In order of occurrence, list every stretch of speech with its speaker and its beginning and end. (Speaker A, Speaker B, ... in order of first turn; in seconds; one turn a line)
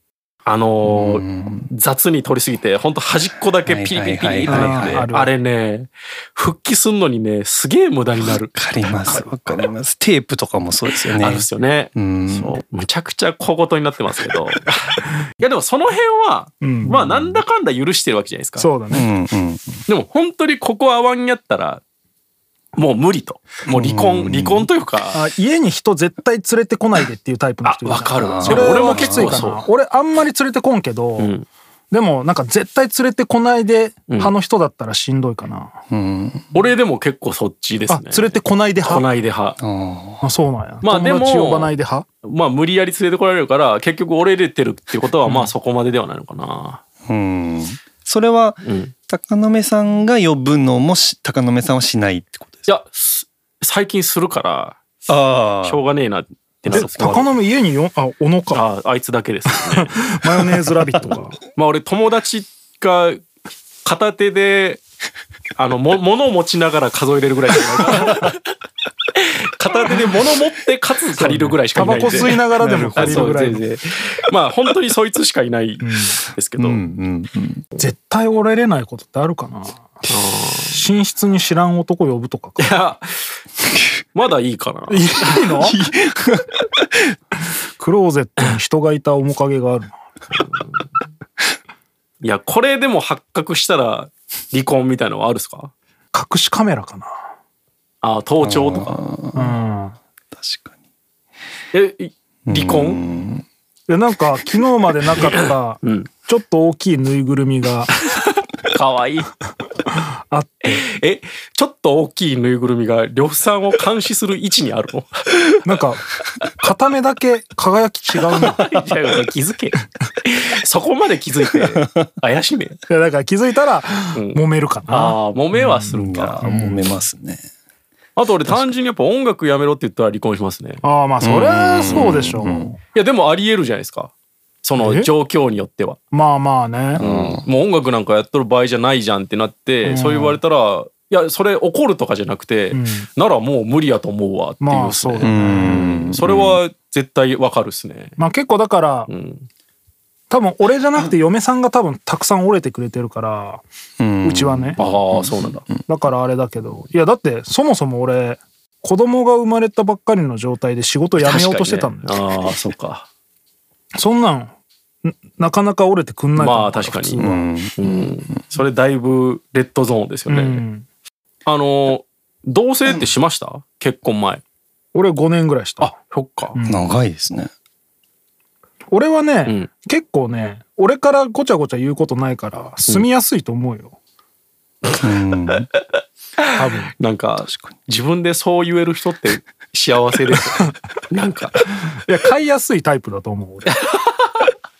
Speaker A: 0.4-9.7
Speaker B: 0.8-1.7
Speaker B: 3.6-5.1
Speaker C: 4.4-5.3
Speaker B: 8.2-12.6
Speaker A: 11.1-18.7
Speaker C: 16.6-17.0
Speaker C: 18.6-19.1
Speaker B: 18.9-19.8
Speaker A: 19.9-21.8
Speaker A: 22.8-25.2
Speaker B: 23.7-24.7
Speaker C: 25.1-31.4
Speaker A: 27.6-29.7
Speaker B: 28.2-29.4
Speaker A: 31.2-31.5
Speaker C: 31.9-35.8
Speaker B: 35.9-36.6
Speaker A: 36.5-39.6
Speaker C: 37.9-39.0
Speaker B: 39.6-40.2
Speaker C: 40.2-42.1
Speaker A: 40.8-46.8
Speaker C: 45.2-45.5
Speaker B: 47.1-52.7
Speaker A: 48.6-48.9
Speaker A: 52.7-54.8
Speaker B: 55.1-55.8
Speaker A: 55.6-57.3
Speaker B: 56.6-57.2
Speaker C: 56.7-58.6
Speaker A: 58.5-59.9
Speaker C: 59.5-61.3
Speaker A: 61.0-63.2
Speaker A: 63.8-64.8
Speaker A: 65.5-68.4
Speaker A: 69.2-76.8
Speaker C: 71.2-73.6
Speaker B: 72.0-73.3
Speaker C: 75.8-76.2
Speaker B: 76.6-77.6
Speaker C: 77.8-80.1
Speaker A: 80.1-80.8
Speaker C: 80.7-82.7
Speaker A: 82.6-83.3
Speaker A: 84.1-85.1
Speaker C: 84.9-85.8
Speaker B: 85.6-86.8
Speaker C: 87.8-90.0
Speaker A: 90.4-90.7
Speaker A: 92.2-95.7
Speaker C: 96.1-97.1
Speaker A: 98.0-99.0
Speaker B: 98.4-99.6
Speaker C: 99.3-100.0
Speaker B: 100.3-100.7
Speaker A: 101.7-103.0
Speaker B: 102.5-103.4
Speaker C: 103.9-107.9
Speaker A: 105.2-106.1
Speaker A: 108.2-109.3
Speaker C: 110.3-110.8
Speaker A: 110.7-115.2
Speaker C: 115.6-116.0
Speaker C: 116.6-118.7
Speaker A: 118.4-122.8
Speaker C: 122.9-126.8
Speaker A: 124.1-126.5
Speaker B: 125.9-127.4
Speaker A: 128.2-130.8
Speaker C: 130.8-132.8
Speaker B: 131.2-132.7
Speaker A: 132.9-134.1
Speaker A: 134.6-136.0
Speaker C: 134.8-135.1
Speaker C: 136.1-137.0
Speaker B: 136.9-137.4
Speaker A: 137.0-148.2
Speaker C: 139.8-140.4
Speaker C: 142.7-143.1
Speaker C: 144.6-146.1
Speaker B: 145.2-146.6
Speaker C: 148.2-149.1
Speaker A: 149.1-149.5
Speaker C: 150.3-153.6
Speaker B: 154.0-155.8
Speaker C: 154.2-154.8
Speaker A: 154.8-155.6
Speaker C: 155.9-162.3
Speaker A: 161.2-163.1
Speaker C: 163.9-164.5
Speaker C: 165.0-167.5
Speaker A: 166.3-167.2
Speaker B: 167.2-168.1
Speaker A: 167.8-170.6
Speaker C: 170.3-170.8
Speaker A: 171.4-174.4
Speaker C: 174.9-175.9
Speaker A: 175.8-176.6
Speaker C: 176.5-176.9
Speaker B: 176.7-177.5
Speaker C: 178.9-183.9
Speaker B: 185.0-185.7
Speaker C: 186.5-186.9
Speaker A: 187.0-191.6
Speaker B: 187.4-187.7
Speaker C: 192.1-193.7
Speaker A: 193.7-194.5